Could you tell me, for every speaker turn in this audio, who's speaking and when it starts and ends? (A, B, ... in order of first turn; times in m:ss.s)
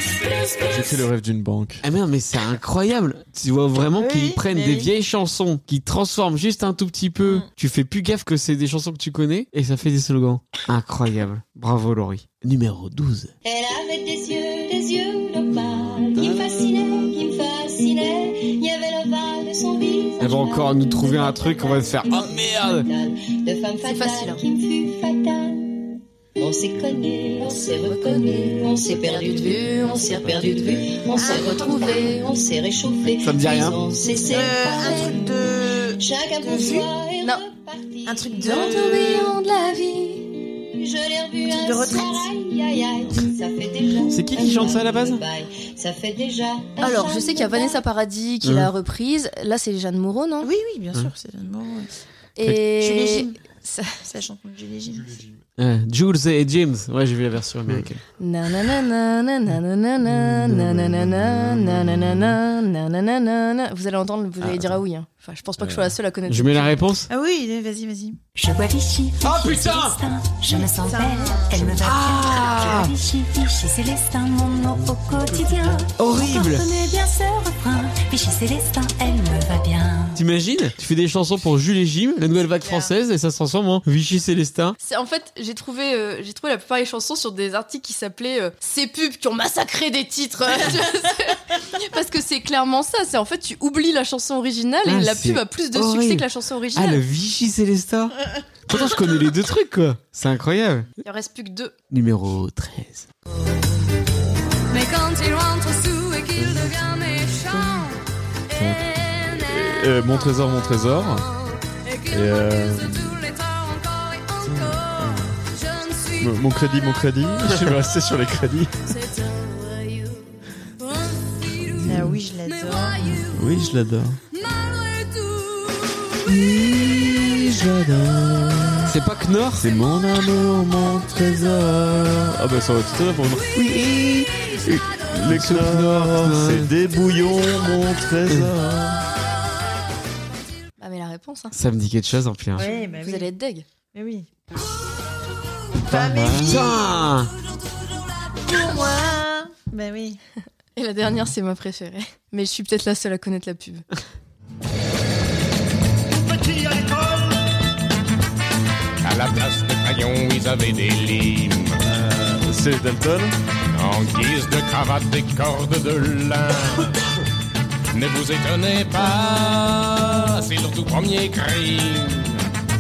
0:00.7-0:01.8 A
0:01.8-0:13.3 B
0:04.0-0:04.9 C
0:07.2-0:07.5 C
0:13.4-0:35.2 D
0:20.2-0:22.9 B
0:23.8-0:24.4 E
0:27.6-0:32.2 E
0:31.2-0:31.8 C
0:33.2-0:33.8 B
0:34.2-0:36.9 C
0:36.0-0:39.3 D
0:38.1-0:39.3 C
0:38.4-0:40.3 E
0:40.4-0:47.8 D
0:41.5-0:42.3 C
0:44.1-0:45.2 B
0:46.8-0:50.5 E
0:48.4-0:48.7 B
0:50.4-0:51.9 C
0:52.4-0:53.9 E
0:52.5-0:53.4 C
0:54.0-0:55.1 C
0:54.9-0:55.4 A
0:55.6-0:58.0 B
0:58.2-1:06.8 E
1:00.0-1:02.4 A
1:04.4-1:04.8 A
1:05.6-1:05.9 A
1:06.3-1:07.1 B
1:07.1-1:08.2 C
1:08.4-1:20.0 F
1:09.2-1:10.0 B
1:10.5-1:11.7 C
1:11.7-1:13.0 B
1:15.2-1:15.8 A
1:16.0-1:16.8 B
1:20.1-1:24.8 B
1:22.6-1:22.9 C
1:24.8-1:37.0 E
1:34.8-1:38.2 B
1:38.7-1:40.9 B
1:41.0-1:41.7 E
1:41.9-1:43.1 B
1:44.7-1:47.3 E
1:46.3-1:47.9 A
1:48.5-1:51.2 A
1:52.1-1:53.3 A
1:54.4-1:55.4 A
1:56.2-1:58.7 A
2:01.7-2:02.2 A
2:01.8-2:03.3 C
2:03.3-2:04.2 A
2:06.2-2:08.9 A
2:08.9-2:09.7 B
2:09.6-2:19.1 A
2:15.3-2:16.7 B
2:20.8-2:21.5 E
2:21.5-2:22.7 B
2:22.6-2:23.3 C
2:22.6-2:23.6 E
2:23.9-2:24.3 C
2:25.8-2:27.1 C
2:25.9-2:27.3 B
2:25.9-2:26.6 A
2:28.4-2:30.2 C
2:30.8-2:33.8 E
2:39.0-2:41.8 G
2:41.8-2:43.3 A
2:43.7-2:47.0 G
2:47.9-2:52.5 G